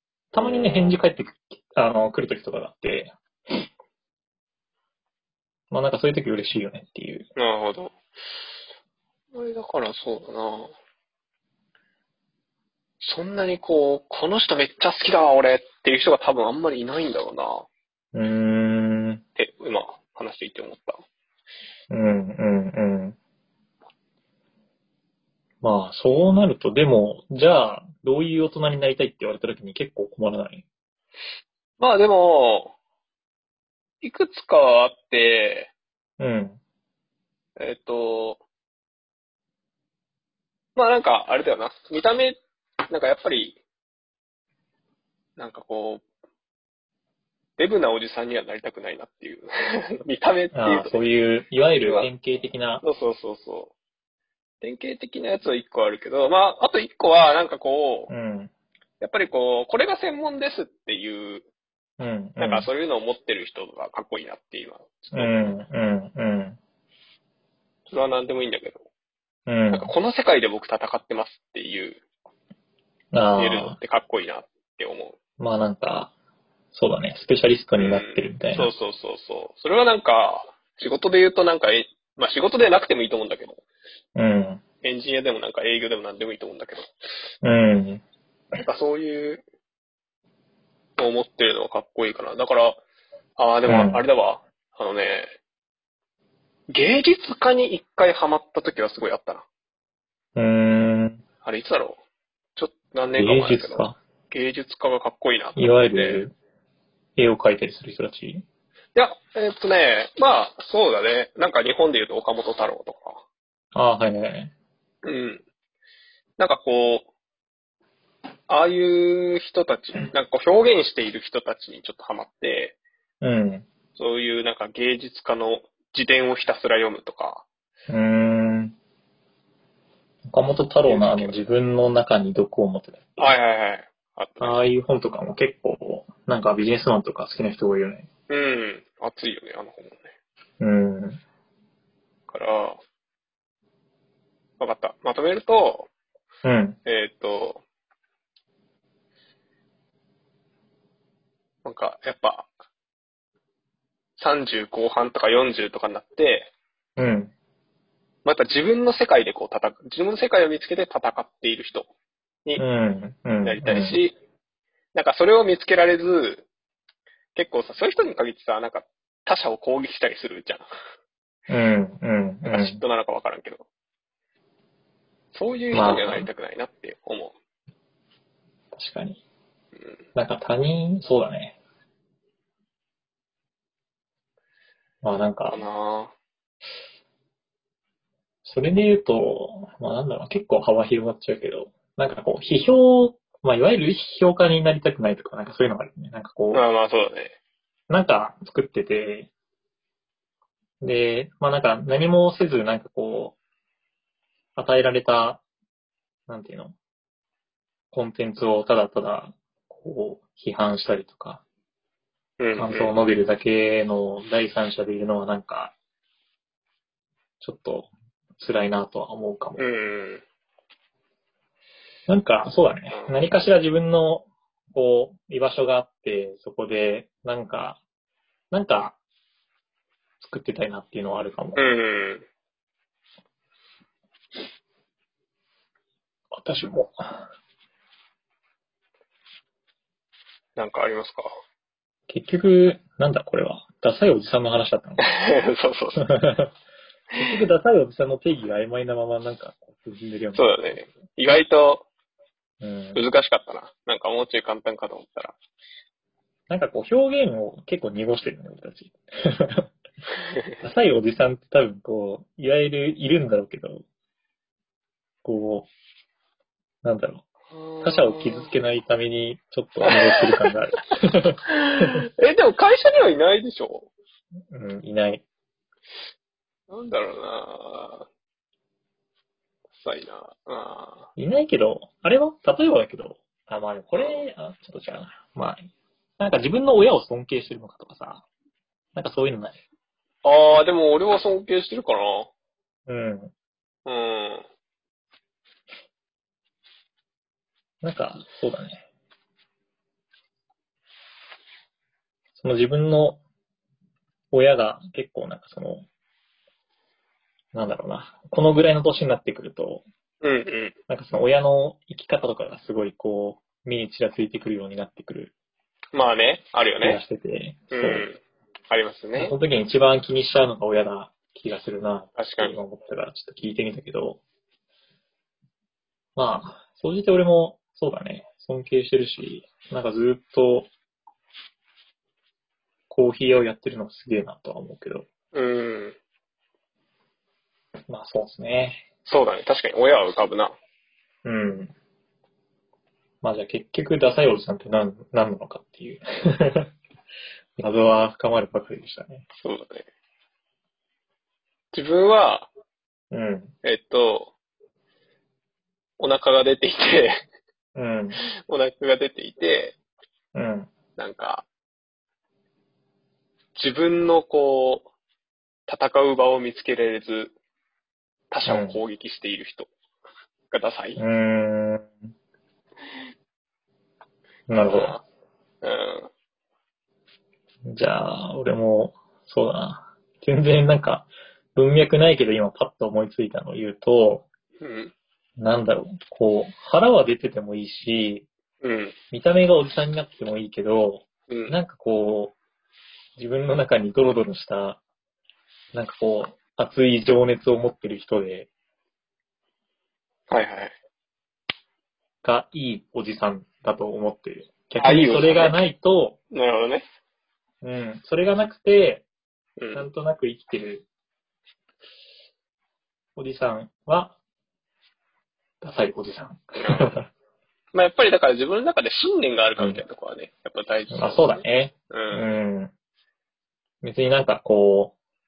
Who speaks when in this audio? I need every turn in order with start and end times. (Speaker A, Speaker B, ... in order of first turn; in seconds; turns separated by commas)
Speaker A: 0.3-3.1, Speaker B: 0.3-1.0, Speaker A: 5.7-7.3, Speaker B: 7.3-8.0, Speaker B: 9.3-10.7, Speaker B: 13.0-17.7, Speaker A: 18.1-19.2, Speaker B: 19.4-21.0, Speaker A: 21.9-23.2, Speaker A: 25.6-30.6, Speaker B: 31.8-32.8, Speaker B: 34.0-35.7, Speaker A: 36.2-36.6, Speaker B: 37.6-38.4, Speaker B: 40.8-42.4, Speaker B: 42.9-43.6, Speaker B: 45.4-46.0, Speaker B: 47.6-51.0, Speaker A: 50.5-52.8, Speaker B: 51.8-52.1, Speaker B: 52.8-53.7, Speaker B: 54.6-58.1, Speaker A: 58.1-58.5, Speaker B: 59.0-61.5, Speaker A: 62.0-62.7, Speaker B: 62.4-65.6, Speaker A: 65.1-66.6, Speaker B: 67.9-68.8, Speaker A: 69.5-69.9, Speaker B: 69.7-72.0, Speaker A: 73.1-73.8, Speaker B: 73.4-75.2, Speaker A: 75.4-76.1, Speaker A: 76.7-78.7, Speaker B: 77.8-83.6, Speaker A: 84.2-84.6, Speaker B: 84.8-86.9, Speaker A: 87.4-88.0, Speaker B: 88.6-89.4, Speaker B: 91.0-92.8, Speaker B: 93.4-95.3, Speaker A: 93.7-94.0, Speaker B: 96.7-99.5, Speaker A: 100.3-101.2, Speaker B: 101.4-102.0, Speaker B: 102.5-106.2, Speaker A: 103.2-104.0, Speaker A: 105.5-106.3, Speaker A: 107.2-108.4, Speaker B: 108.9-113.2, Speaker A: 113.7-114.5, Speaker B: 115.0-115.4, Speaker B: 116.4-117.1, Speaker B: 118.5-122.8, Speaker A: 123.2-123.7, Speaker B: 124.0-127.5, Speaker A: 127.9-128.7, Speaker A: 130.3-133.3, Speaker B: 130.8-131.4, Speaker B: 133.2-134.6, Speaker A: 134.4-138.1, Speaker B: 138.3-140.1, Speaker A: 140.6-141.2, Speaker B: 142.3-142.8, Speaker B: 144.6-145.9, Speaker A: 146.4-146.8, Speaker B: 146.8-147.6, Speaker B: 151.6-152.5, Speaker B: 154.2-156.5, Speaker A: 157.0-157.3, Speaker B: 158.2-161.9, Speaker A: 162.6-164.0, Speaker B: 163.4-164.2, Speaker B: 164.9-166.5, Speaker B: 167.3-170.7, Speaker A: 171.5-172.8, Speaker B: 172.4-173.7, Speaker B: 175.3-177.3, Speaker A: 175.7-176.3, Speaker A: 178.7-179.2, Speaker A: 180.1-181.6, Speaker A: 185.0-185.7, Speaker B: 185.5-186.1, Speaker A: 188.4-196.6, Speaker B: 196.5-197.3, Speaker A: 197.9-199.3, Speaker A: 200.8-203.4, Speaker A: 204.6-205.4, Speaker A: 206.3-206.7, Speaker A: 207.9-211.4, Speaker B: 212.4-212.9, Speaker A: 212.6-215.7, Speaker A: 217.4-219.7, Speaker B: 219.6-220.2, Speaker A: 222.1-227.8, Speaker B: 222.9-223.2, Speaker A: 228.5-229.0, Speaker A: 230.2-231.8, Speaker B: 231.6-232.2, Speaker A: 236.3-237.3, Speaker B: 240.6-241.3, Speaker A: 242.1-245.1, Speaker B: 245.0-246.0, Speaker A: 246.0-246.5, Speaker A: 247.2-250.9, Speaker B: 250.3-251.8, Speaker A: 252.6-253.0, Speaker B: 252.9-255.3, Speaker A: 256.5-259.7, Speaker A: 260.6-263.8, Speaker A: 265.2-265.7, Speaker A: 266.8-267.2, Speaker B: 267.5-268.5, Speaker A: 267.8-272.0, Speaker B: 269.9-270.5, Speaker B: 271.5-273.9, Speaker A: 274.5-275.2, Speaker B: 276.7-278.1, Speaker B: 279.8-281.1, Speaker A: 281.2-288.2, Speaker B: 283.9-284.2, Speaker A: 288.9-289.6, Speaker B: 290.2-292.3, Speaker A: 292.9-293.3, Speaker B: 293.9-294.4, Speaker A: 297.8-298.8, Speaker A: 302.4-303.2, Speaker A: 304.3-305.9, Speaker A: 307.5-309.8, Speaker B: 310.2-310.8, Speaker A: 310.9-315.3, Speaker B: 315.9-317.0, Speaker A: 316.8-318.1, Speaker B: 317.7-319.4, Speaker A: 319.1-324.2, Speaker B: 322.2-322.6, Speaker A: 326.1-330.7, Speaker A: 332.9-335.1, Speaker B: 335.3-336.0, Speaker A: 337.9-338.8, Speaker B: 339.0-340.6, Speaker A: 341.2-341.7, Speaker A: 343.2-346.7, Speaker A: 347.6-349.2, Speaker B: 349.3-349.9, Speaker B: 351.7-352.5, Speaker A: 353.1-353.5, Speaker B: 353.6-354.3, Speaker B: 356.0-357.1, Speaker A: 357.8-358.2, Speaker B: 358.2-359.8, Speaker A: 360.3-360.7, Speaker B: 361.0-361.5, Speaker B: 363.5-364.9, Speaker B: 365.7-367.3, Speaker B: 368.3-369.7, Speaker A: 368.4-368.8, Speaker B: 370.5-371.0, Speaker A: 371.0-371.9, Speaker A: 374.5-375.0, Speaker B: 374.6-375.0, Speaker B: 375.6-376.1, Speaker A: 377.6-384.3, Speaker B: 384.6-384.9, Speaker A: 385.4-388.3, Speaker B: 388.6-388.9, Speaker A: 389.1-392.4, Speaker B: 391.3-391.5, Speaker A: 393.2-394.8, Speaker A: 395.7-398.5, Speaker B: 400.3-400.7, Speaker A: 402.2-406.2, Speaker B: 404.8-405.6, Speaker B: 406.3-406.8, Speaker A: 407.6-409.1, Speaker B: 409.6-409.9, Speaker A: 409.7-410.9, Speaker A: 413.1-414.2, Speaker A: 415.6-417.1, Speaker B: 416.6-417.0, Speaker B: 417.7-422.3, Speaker A: 419.6-419.8, Speaker A: 420.9-422.7, Speaker A: 423.8-424.9